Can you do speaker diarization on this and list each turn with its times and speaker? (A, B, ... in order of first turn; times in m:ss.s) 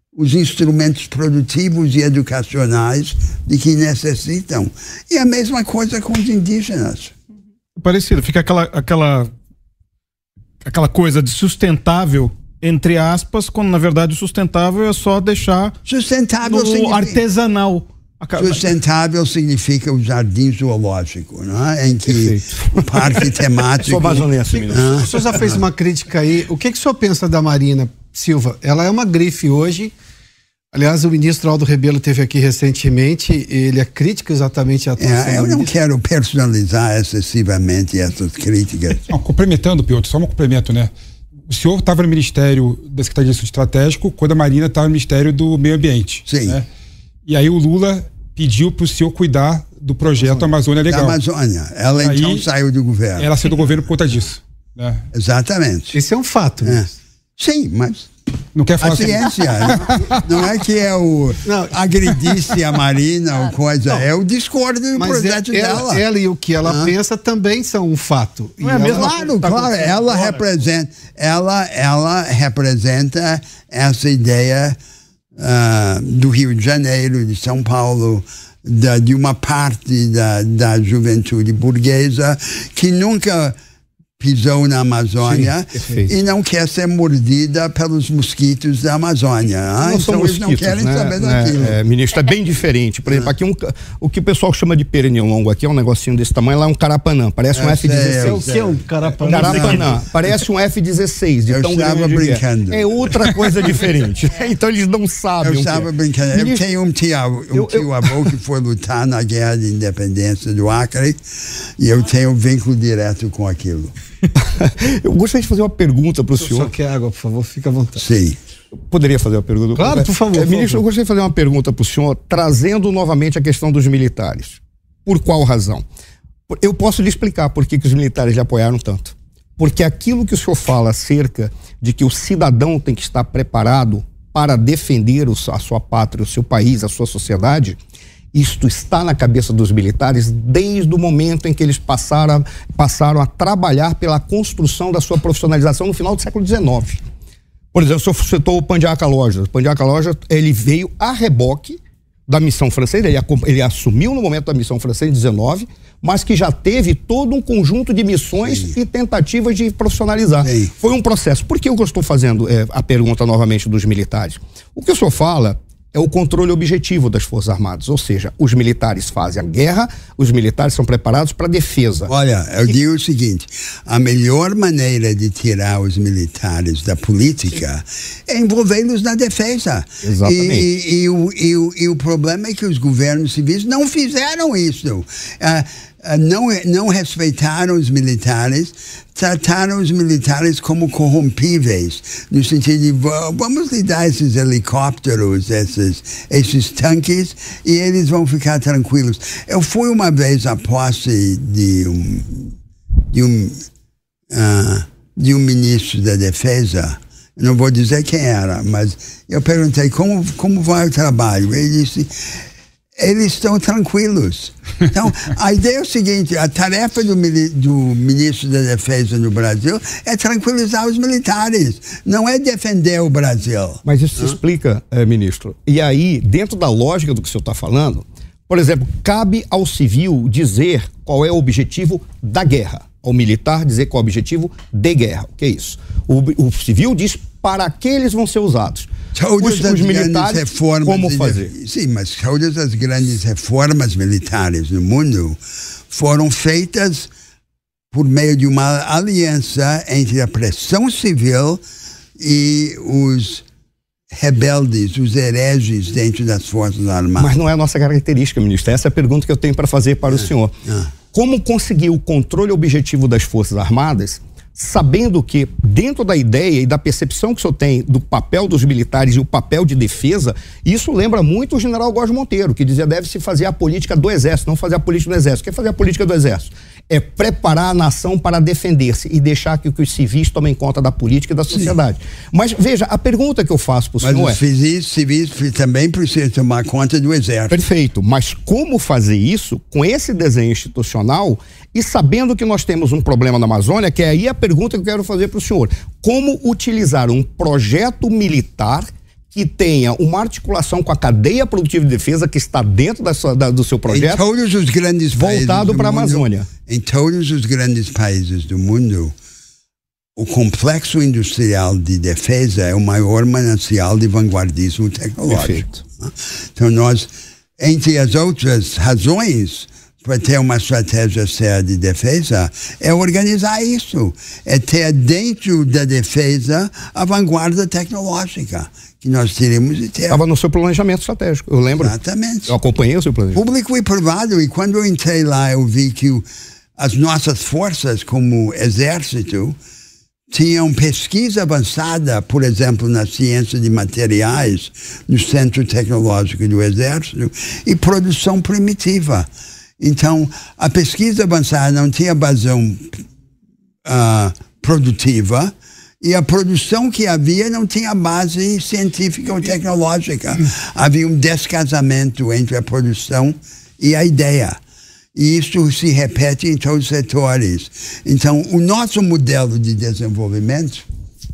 0:00.1-0:07.1 A
0:07.8-0:09.3 B
0:10.6-0:15.7 B
0:15.8-0:17.2 A
0:16.4-0:18.7 B
0:18.4-0:25.5 A
0:22.1-0:25.5 C
0:25.0-0:29.9 D
0:30.7-0:35.7 D
0:35.0-0:39.1 A
0:39.1-0:40.9 E
0:41.5-0:46.7 E
0:46.2-0:46.6 A
0:47.3-0:51.2 E
0:50.2-0:50.5 D
0:50.8-0:53.3 A
0:52.0-0:52.4 E
0:53.2-0:55.0 E
0:55.1-0:56.0 A
0:55.9-0:56.9 D
0:56.6-0:58.1 A
0:58.5-1:00.3 E
0:58.8-1:06.0 A
1:01.4-1:02.4 D
1:05.0-1:09.1 D
1:06.6-1:06.9 A
1:08.6-1:10.3 B
1:08.8-1:14.8 A
1:15.4-1:23.6 A
1:24.2-1:31.8 A
1:25.2-1:26.0 D
1:25.8-1:26.1 C
1:29.8-1:38.5 C
1:31.2-1:31.7 D
1:33.1-1:33.3 A
1:37.5-1:39.9 A
1:38.1-1:40.1 D
1:39.2-1:46.6 C
1:41.5-1:43.2 A
1:45.4-1:51.2 A
1:51.8-1:53.9 A
1:54.3-1:56.7 C
1:56.4-1:58.0 D
1:58.0-1:58.4 A
1:58.7-2:05.8 C
1:59.7-2:00.8 D
2:06.5-2:17.8 C
2:18.3-2:27.0 C
2:27.7-2:52.1 C
2:38.4-2:38.7 A
2:40.4-2:40.7 A
2:52.1-3:22.5 A
3:00.0-3:00.7 C
3:23.1-3:23.6 A
3:24.3-3:32.1 A
3:33.0-3:44.4 A
3:43.8-4:01.5 C
3:59.1-4:07.1 A
4:07.9-4:11.6 A
4:12.2-4:13.4 A
4:14.1-4:17.3 A
4:17.2-4:20.5 C
4:20.1-4:20.9 A
4:21.1-4:44.4 C
4:44.0-4:47.6 A
4:47.5-5:04.2 C
5:03.9-5:09.1 A
5:05.1-5:06.5 C
5:10.2-5:30.2 A
5:15.3-5:15.7 C
5:30.1-5:32.0 C
5:31.8-5:32.5 A
5:32.5-5:33.4 C
5:33.3-5:39.6 A
5:40.3-5:53.0 A
5:53.8-6:04.6 A
6:05.1-6:10.8 A